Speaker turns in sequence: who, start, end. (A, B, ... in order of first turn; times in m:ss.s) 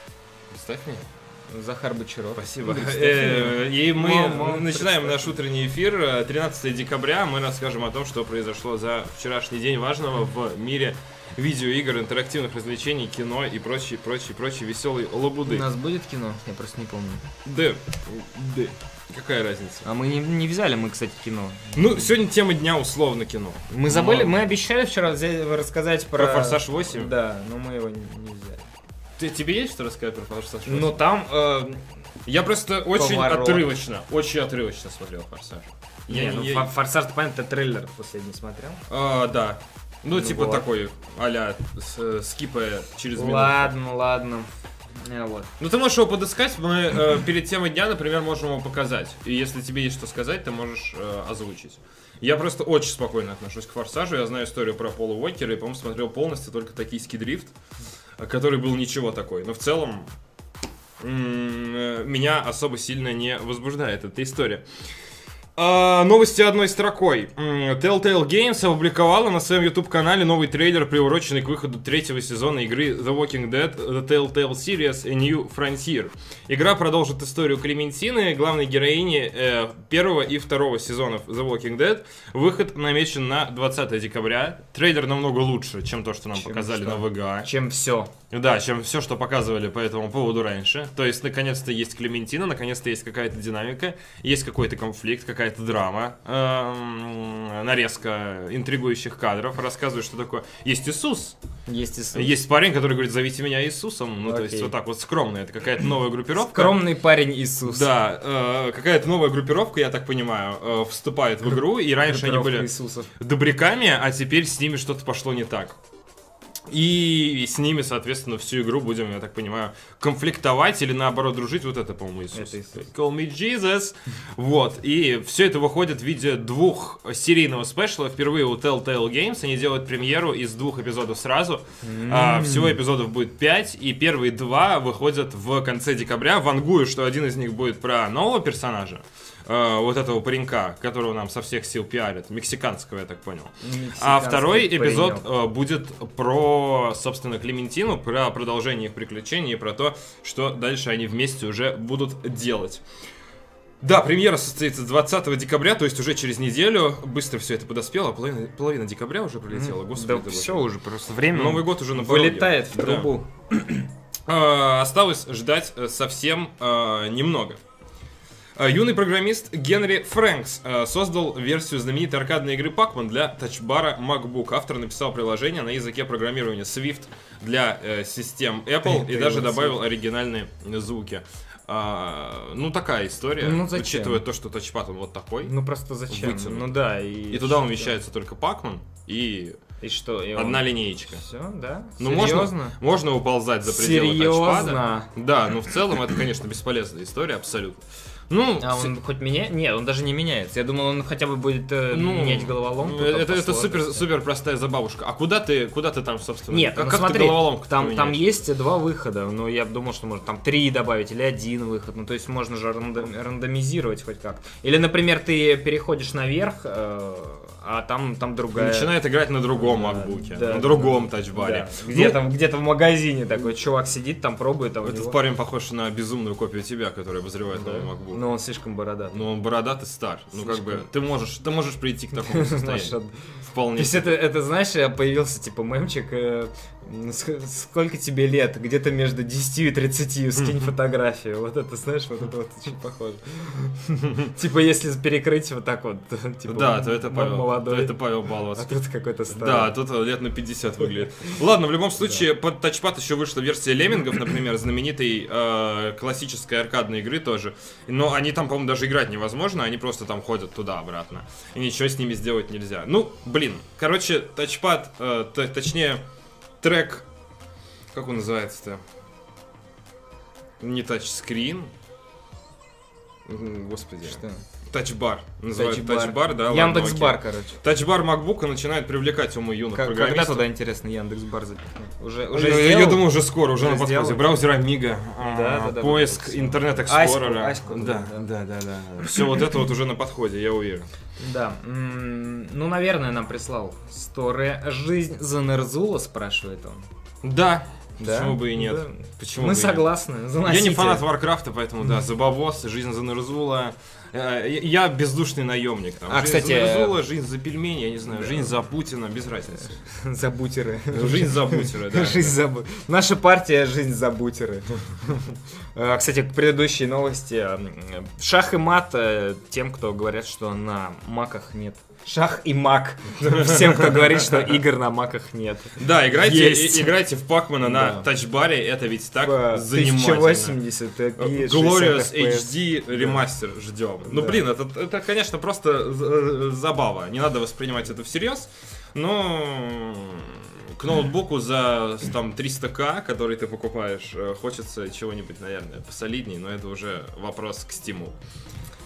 0:00.5-0:01.1 A
0:01.5-0:05.4 B
0:02.4-0:15.7 A
0:15.4-0:17.3 B
0:17.4-0:19.9 A
0:19.8-0:22.1 B
0:21.8-0:24.4 A
0:23.7-0:28.7 B
0:26.2-0:27.1 A
0:29.2-0:31.0 A
0:30.7-0:31.8 B
0:32.3-0:36.7 A
0:32.9-0:33.7 B
0:36.1-0:38.8 B
0:38.9-0:43.7 A
0:40.1-0:40.7 B
0:43.2-0:44.5 B
0:45.0-0:45.5 B
0:45.6-0:57.5 A
0:58.2-1:00.1 A
1:01.0-1:04.6 A
1:05.6-1:27.5 A
1:26.4-1:28.1 B
1:28.3-1:41.4 A
1:41.7-1:42.4 B
1:42.1-1:46.8 A
1:44.2-1:44.7 B
1:46.4-1:47.9 B
1:47.6-1:55.8 A
1:52.0-1:53.1 B
1:56.7-2:32.8 A
2:02.3-2:02.9 B
2:11.8-2:12.8 B
2:23.6-2:25.3 B
2:33.8-2:40.6 A
2:39.5-2:43.9 B
2:41.3-2:43.1 A
2:44.3-2:47.6 A
2:48.6-3:05.5 A
2:58.8-2:59.8 B
3:03.4-3:04.2 B
3:05.4-3:08.0 B
3:06.1-3:06.8 A
3:07.3-3:09.6 A
3:09.8-3:12.8 B
3:10.4-3:11.2 A
3:12.0-3:18.9 A
3:13.6-3:15.1 B
3:18.6-3:24.0 B
3:21.9-3:28.4 A
3:26.5-3:39.0 B
3:38.6-3:42.2 A
3:39.5-3:45.2 B
3:44.8-3:48.2 A
3:47.5-3:49.2 B
3:49.1-3:54.2 A
3:50.3-3:50.8 B
3:52.2-3:53.2 B
3:53.7-4:08.0 B
4:06.5-4:08.7 A
4:08.5-4:09.8 B
4:09.3-4:26.0 A
4:12.0-4:12.2 B
4:26.6-4:27.1 A
4:27.9-4:28.8 A
4:30.6-4:31.7 A
4:33.3-4:40.4 A
4:34.1-4:34.4 B
4:35.5-4:37.6 B
4:39.7-4:44.4 B
4:42.3-4:50.9 A
4:45.2-4:48.3 B
4:51.2-4:56.8 B
4:57.2-4:59.9 A
4:58.0-5:01.1 B
5:00.4-5:09.8 A
5:06.1-5:07.0 B
5:08.1-5:08.6 B
5:09.7-5:27.0 B
5:10.9-5:12.4 A
5:23.2-5:24.6 A
5:25.8-5:30.6 A
5:27.6-5:28.1 B
5:29.2-5:33.3 B
5:31.2-5:48.2 A
5:34.1-5:34.4 B